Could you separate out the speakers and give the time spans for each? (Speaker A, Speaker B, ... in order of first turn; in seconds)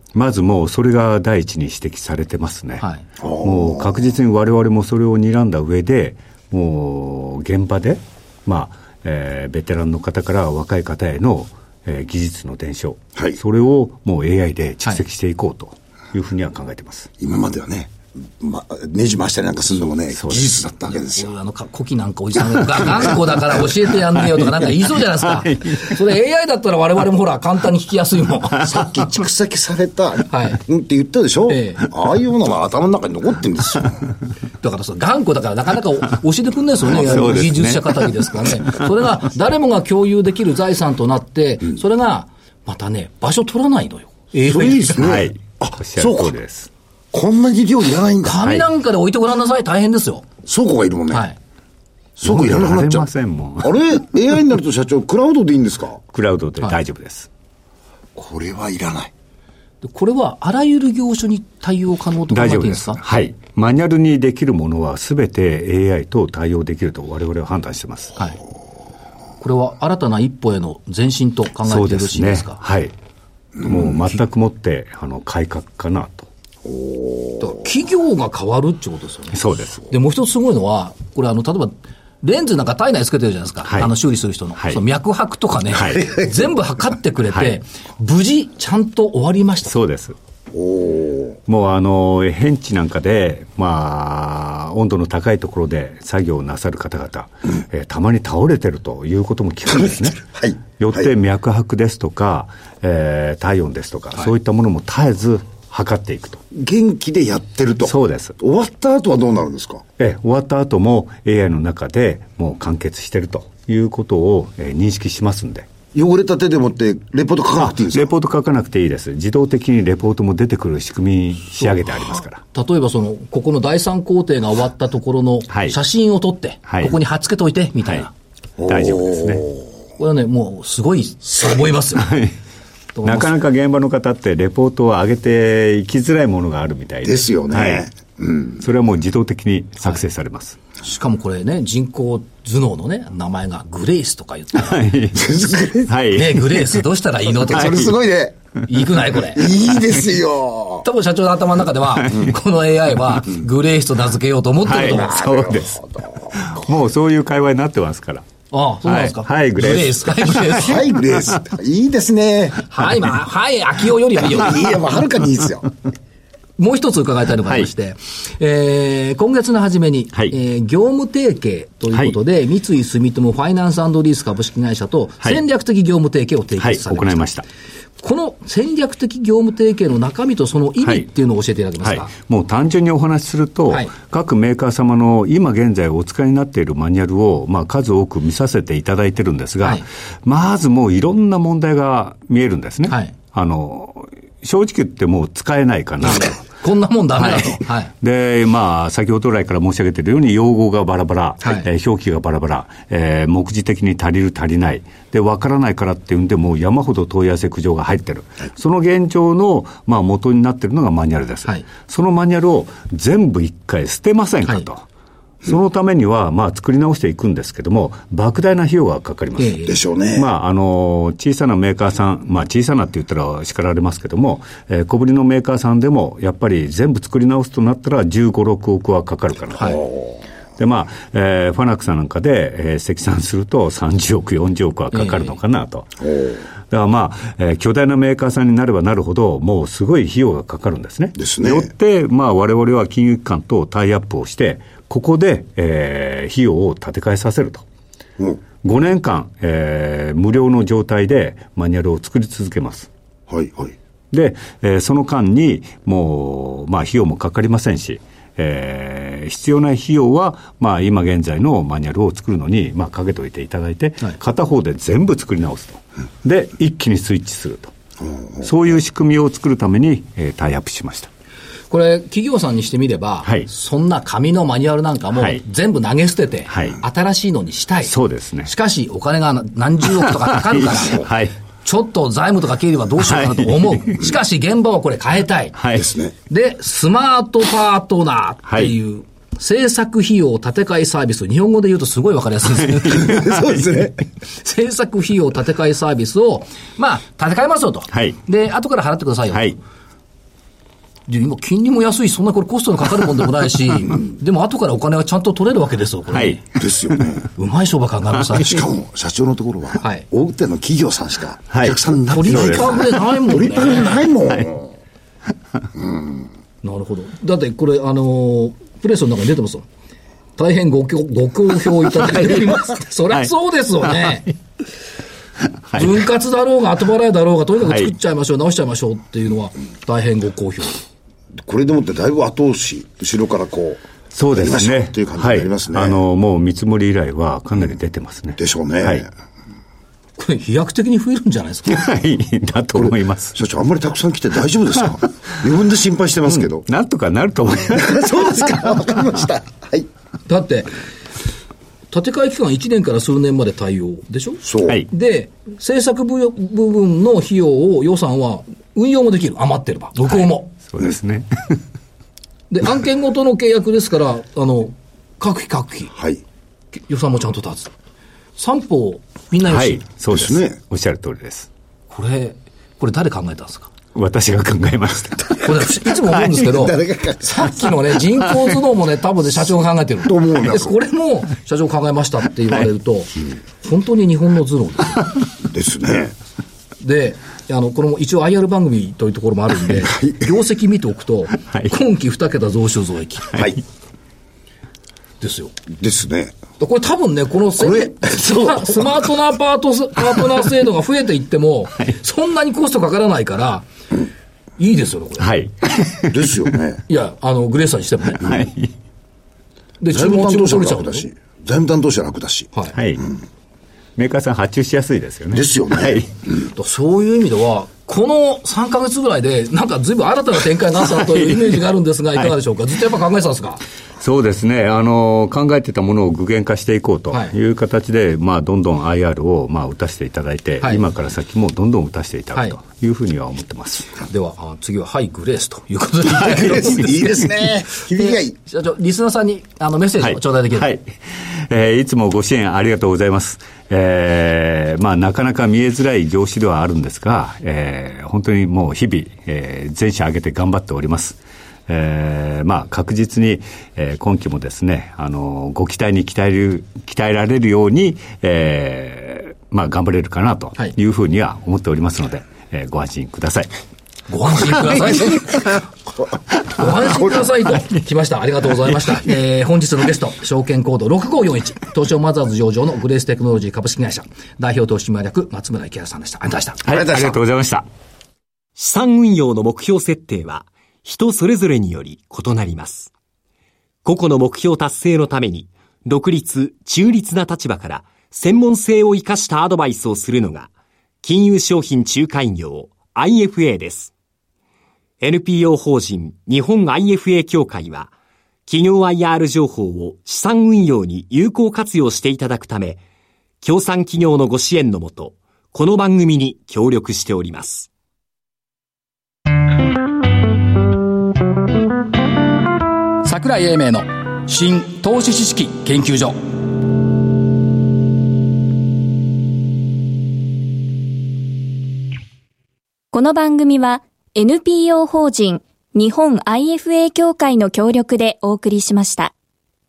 Speaker A: 0.1-2.8, 3.4-17.1, 20.1-20.6, 25.2-25.9, 36.9-38.1, 45.0-46.7, 52.2-53.8, 56.1-57.3, 62.3-68.1, 71.7-72.9, 73.6-76.3, 79.3-79.9, 85.7-86.1, 87.3-87.6, 89.7-90.2, 91.5-106.4, 107.8-108.3, 110.0-115.7, 117.6-122.4, 125.5-125.7, 126.7-127.0, 128.6-129.4, 131.9-132.3, 133.0-137.8, 138.6-140.6, 144.5-145.3, 145.9-146.8, 147.6-147.9, 154.6-158.2, 158.8-161.4, 176.6-177.4, 181.8-196.4, 197.2-214.8, 215.4-229.8, 230.6-236.1, 236.7-247.6, 248.6-252.9, 254.1-267.7, 268.4-271.1, 276.5-276.8, 277.9-278.5, 280.5-281.3, 283.0-283.9, 285.5-285.9, 288.5-288.7, 292.7-293.6, 297.9-298.2, 306.1-306.4, 311.5-312.9, 322.1-322.5, 323.8-324.2, 325.6-326.0, 334.1-339.0, 341.7-343.3, 346.3-349.0, 360.1-361.6, 369.4-371.5, 373.9-375.7, 405.2-406.2, 408.2-408.7, 412.7-413.1, 414.0-416.1, 424.0-433.9, 436.2-436.6, 440.0-463.5, 464.8-465.3, 476.6-477.6
Speaker B: 3.2-4.0, 17.2-21.3, 28.6-34.1, 36.9-37.2, 44.4-46.3, 47.1-48.4, 50.5-51.2, 52.2-53.1, 53.6-56.0, 58.1-59.1, 76.7-77.5, 90.5-91.4, 100.3-101.1, 106.5-109.8, 115.9-118.1, 128.6-129.6, 137.0-138.6, 145.1-145.9, 147.4-148.4, 149.3-150.8, 154.8-156.3, 160.5-162.7, 164.2-165.7, 219.7-220.3, 229.8-230.2, 241.2-241.7, 253.3-253.7, 285.8-286.1, 292.9-294.0, 306.5-307.2, 308.3-314.7, 315.8-316.1, 331.4-333.8, 334.3-336.0, 338.4-339.1, 342.7-346.6, 347.7-349.9, 354.4-354.8, 365.9-366.2, 370.1-370.6, 376.4-377.5, 380.0-380.8, 385.5-386.1, 393.3-393.6, 395.7-396.4, 397.6-398.9, 406.1-406.8, 409.9-412.5, 415.3-416.1, 436.2-438.3, 476.7-477.1
Speaker C: 21.1-28.7, 30.3-30.6, 31.5-31.8, 34.6-45.0, 48.2-50.3, 51.1-51.4, 59.8-63.0, 69.4-72.6, 77.4-79.4, 79.9-89.7, 122.5-128.1, 130.0-132.1, 133.0-133.3, 140.8-144.9, 146.1-147.9, 148.7-149.5, 150.8-155.2, 158.5-160.8, 162.7-164.7, 166.6-177.3, 178.0-182.1, 192.9-193.1, 196.0-197.9, 219.4-219.8, 234.9-235.3, 271.7-277.9, 278.4-281.1, 281.6-285.6, 286.3-293.4, 294.3-299.6, 301.1-306.4, 307.4-308.6, 309.8-310.1, 312.1-314.0, 316.6-319.6, 320.4-324.3, 325.7-330.8, 340.2-341.9, 350.3-350.7, 351.9-360.5, 362.5-365.9, 366.9-367.7, 368.4-369.8, 371.9-373.7, 375.4-385.1, 386.8-393.3, 395.2-395.5, 396.6-403.7, 404.6-405.3, 406.9-408.3, 409.8-411.1, 416.5-423.6, 434.0-440.7, 464.1-465.6, 466.5-476.6, 513.0-516.2
Speaker D: 478.6-482.9, 483.8-490.5, 491.0-493.9, 495.0-497.9, 498.4-502.8, 503.4-507.7
Speaker E: 522.9-529.1